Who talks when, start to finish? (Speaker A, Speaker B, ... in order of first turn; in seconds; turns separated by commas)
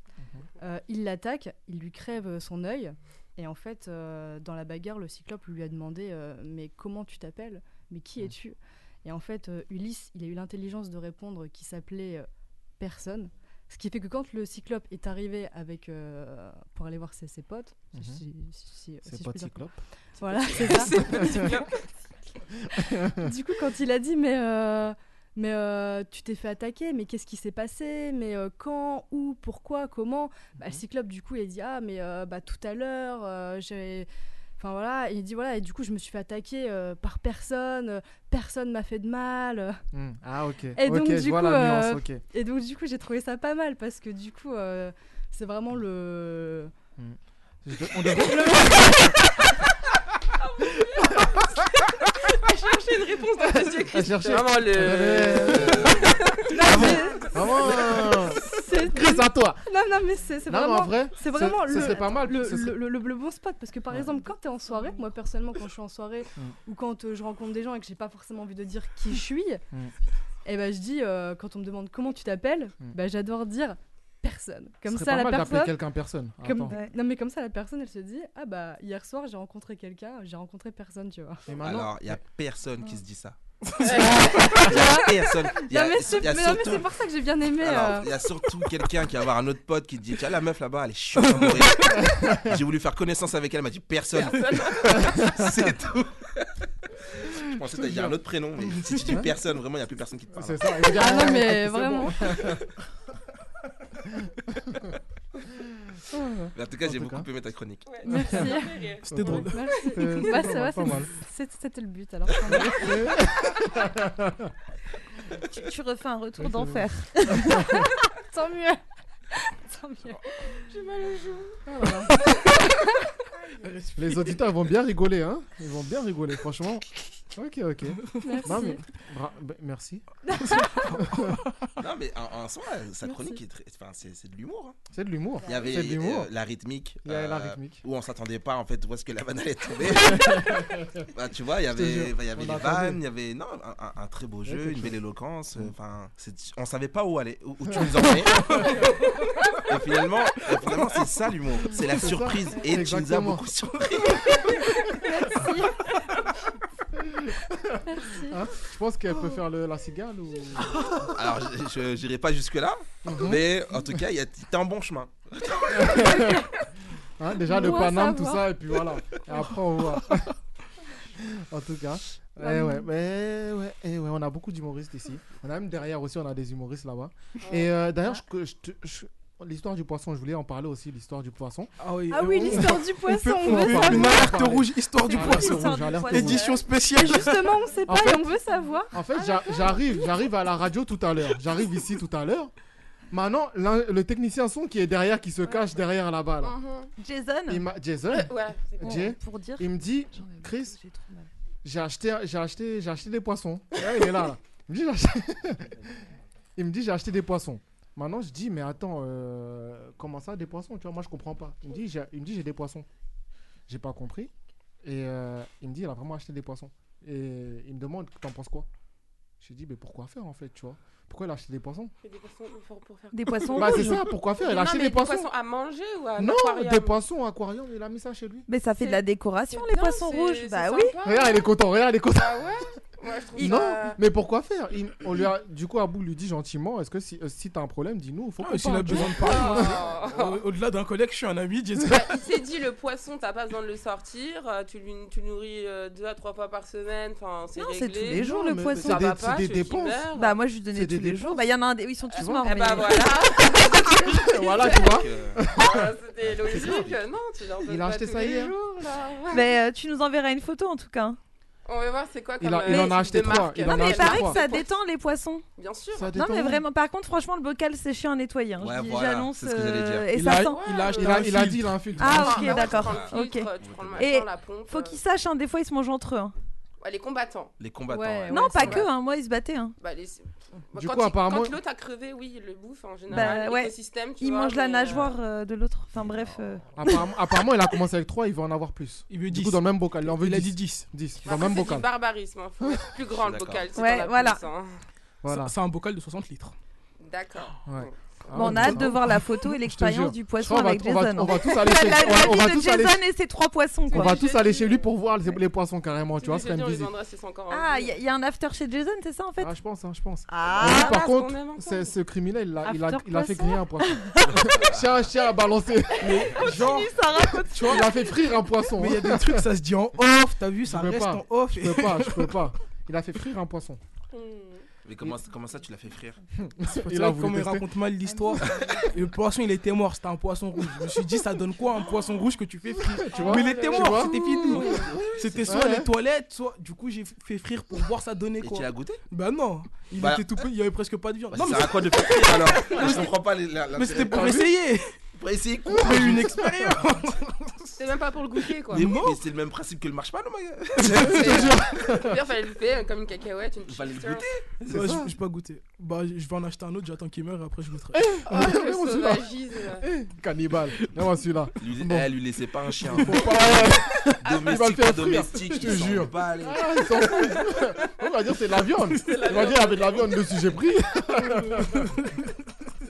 Speaker A: 0.6-12.3, Speaker A: 12.8-21.7, Speaker B: 17.9-18.2, Speaker B: 19.1-19.8, Speaker C: 20.3-21.9, Speaker B: 20.6-21.5, Speaker B: 22.6-23.3, Speaker A: 22.8-39.8, Speaker B: 39.9-42.2, Speaker A: 40.8-46.7, Speaker B: 47.0-49.1, Speaker A: 48.3-49.2, Speaker C: 50.4-57.2, Speaker B: 53.7-59.6, Speaker D: 55.5-56.1, Speaker A: 56.5-69.6, Speaker B: 60.5-62.8, Speaker A: 70.5-75.8, Speaker B: 74.9-76.8, Speaker A: 76.4-81.6, Speaker E: 76.7-76.9, Speaker B: 81.5-82.2, Speaker D: 81.5-87.0, Speaker C: 83.8-84.7, Speaker A: 84.1-88.1, Speaker D: 87.6-96.7, Speaker F: 91.4-91.6, Speaker B: 92.0-92.5, Speaker C: 94.2-95.2, Speaker B: 94.9-95.7, Speaker D: 97.2-100.9, Speaker B: 97.7-98.2, Speaker B: 99.0-99.3, Speaker B: 100.3-102.7, Speaker A: 100.8-102.4, Speaker B: 104.1-104.9, Speaker B: 106.1-107.3, Speaker D: 106.5-107.9, Speaker C: 107.8-109.3, Speaker A: 108.0-113.3, Speaker B: 108.1-108.4, Speaker F: 109.0-109.7, Speaker B: 109.1-111.1, Speaker B: 112.5-114.5, Speaker E: 115.4-117.8, Speaker B: 116.4-117.8, Speaker A: 117.8-120.6, Speaker C: 120.6-121.6, Speaker B: 121.7-122.2, Speaker A: 122.5-123.0, Speaker F: 123.7-124.2, Speaker B: 124.0-131.4, Speaker A: 128.2-128.8, Speaker A: 130.3-130.9, Speaker F: 130.7-131.5, Speaker D: 131.8-134.8, Speaker A: 133.1-133.4, Speaker B: 134.9-136.3, Speaker D: 135.4-148.9, Speaker B: 137.0-137.8, Speaker B: 140.0-141.1, Speaker B: 141.7-143.0, Speaker B: 144.5-145.0, Speaker B: 147.7-148.8, Speaker D: 149.6-154.7, Speaker B: 151.9-153.4, Speaker A: 154.9-156.0, Speaker B: 156.9-161.1, Speaker A: 157.9-158.4, Speaker D: 161.1-166.4, Speaker B: 163.1-163.5, Speaker B: 165.7-166.5, Speaker B: 167.2-170.3, Speaker A: 167.4-168.5, Speaker B: 171.2-181.7, Speaker A: 172.4-172.9, Speaker C: 177.4-177.7, Speaker F: 181.8-187.5, Speaker A: 182.1-184.4, Speaker B: 183.4-186.5, Speaker E: 185.0-187.2, Speaker A: 186.9-189.7, Speaker B: 187.9-188.3, Speaker B: 188.9-192.5, Speaker B: 193.1-196.6, Speaker C: 196.4-196.9, Speaker E: 197.0-197.7, Speaker B: 197.5-200.8, Speaker C: 198.1-199.1, Speaker E: 198.8-201.3, Speaker B: 201.6-206.0, Speaker B: 206.6-212.9, Speaker B: 213.7-214.3, Speaker B: 214.8-218.7, Speaker B: 219.4-221.9, Speaker C: 222.0-227.0, Speaker E: 223.1-224.1, Speaker B: 223.6-225.3, Speaker B: 226.2-228.5, Speaker E: 228.5-230.9, Speaker C: 228.8-231.5, Speaker B: 231.0-232.6, Speaker C: 232.2-234.0, Speaker B: 233.4-239.8, Speaker E: 233.4-233.8, Speaker F: 238.4-242.2, Speaker C: 239.1-240.4, Speaker C: 241.9-250.4, Speaker E: 247.6-249.2, Speaker B: 248.1-250.1, Speaker E: 250.1-253.9, Speaker B: 250.7-251.5, Speaker B: 252.1-253.0, Speaker C: 252.2-255.0, Speaker B: 253.9-255.9, Speaker D: 254.5-255.5, Speaker C: 255.5-259.6, Speaker D: 256.2-257.1, Speaker B: 256.4-256.9, Speaker B: 257.7-258.6, Speaker E: 259.3-261.2, Speaker C: 261.6-264.8, Speaker B: 262.4-264.4, Speaker E: 262.7-265.4, Speaker C: 265.6-266.1, Speaker B: 265.9-266.6, Speaker E: 266.1-270.9, Speaker D: 268.6-270.1, Speaker F: 270.1-272.0, Speaker C: 270.4-271.2, Speaker B: 271.0-272.7, Speaker E: 272.0-276.4, Speaker C: 272.1-275.0, Speaker D: 272.5-274.1, Speaker C: 276.8-277.6, Speaker D: 277.6-278.8, Speaker A: 277.9-278.9, Speaker E: 278.3-279.8, Speaker C: 278.6-278.9, Speaker C: 279.8-285.2, Speaker B: 280.7-281.6, Speaker E: 283.1-287.1, Speaker D: 285.9-286.6, Speaker B: 286.8-291.9, Speaker F: 289.1-290.9, Speaker C: 291.2-294.8, Speaker B: 292.6-292.9, Speaker D: 293.1-293.7, Speaker E: 293.8-294.4, Speaker B: 295.2-295.6, Speaker F: 295.3-296.6, Speaker C: 297.0-298.0, Speaker B: 297.6-303.0, Speaker E: 298.3-304.3, Speaker C: 303.9-304.9, Speaker B: 303.9-306.9, Speaker C: 306.2-308.0, Speaker E: 307.5-309.5, Speaker B: 309.4-316.6, Speaker E: 310.3-311.0, Speaker C: 310.5-311.9, Speaker A: 312.6-313.7, Speaker E: 314.1-314.4, Speaker D: 314.3-315.1, Speaker F: 316.0-316.9, Speaker E: 316.2-318.1, Speaker F: 317.5-317.9, Speaker B: 317.5-319.5, Speaker F: 318.8-322.5, Speaker B: 320.7-323.8, Speaker C: 324.1-324.7, Speaker D: 324.8-326.2, Speaker B: 326.4-327.7, Speaker F: 326.8-343.2, Speaker B: 332.9-334.8, Speaker C: 333.1-334.7, Speaker D: 334.6-335.6, Speaker B: 335.5-335.9, Speaker D: 338.4-339.0, Speaker D: 340.0-340.3, Speaker D: 341.3-344.5, Speaker F: 343.7-344.9, Speaker B: 344.2-344.4, Speaker D: 345.1-346.4, Speaker F: 345.7-347.3, Speaker B: 345.8-346.8, Speaker C: 347.8-348.9, Speaker F: 348.7-349.2, Speaker D: 348.7-351.6, Speaker F: 350.8-351.1, Speaker C: 351.0-354.4, Speaker B: 351.1-352.2, Speaker D: 353.6-354.6, Speaker F: 354.7-358.2, Speaker B: 354.7-355.1, Speaker B: 358.0-362.1, Speaker C: 358.3-359.9, Speaker D: 361.6-367.0, Speaker F: 362.9-363.8, Speaker B: 362.9-372.1, Speaker F: 365.7-366.1, Speaker C: 369.0-370.4, Speaker F: 371.3-371.9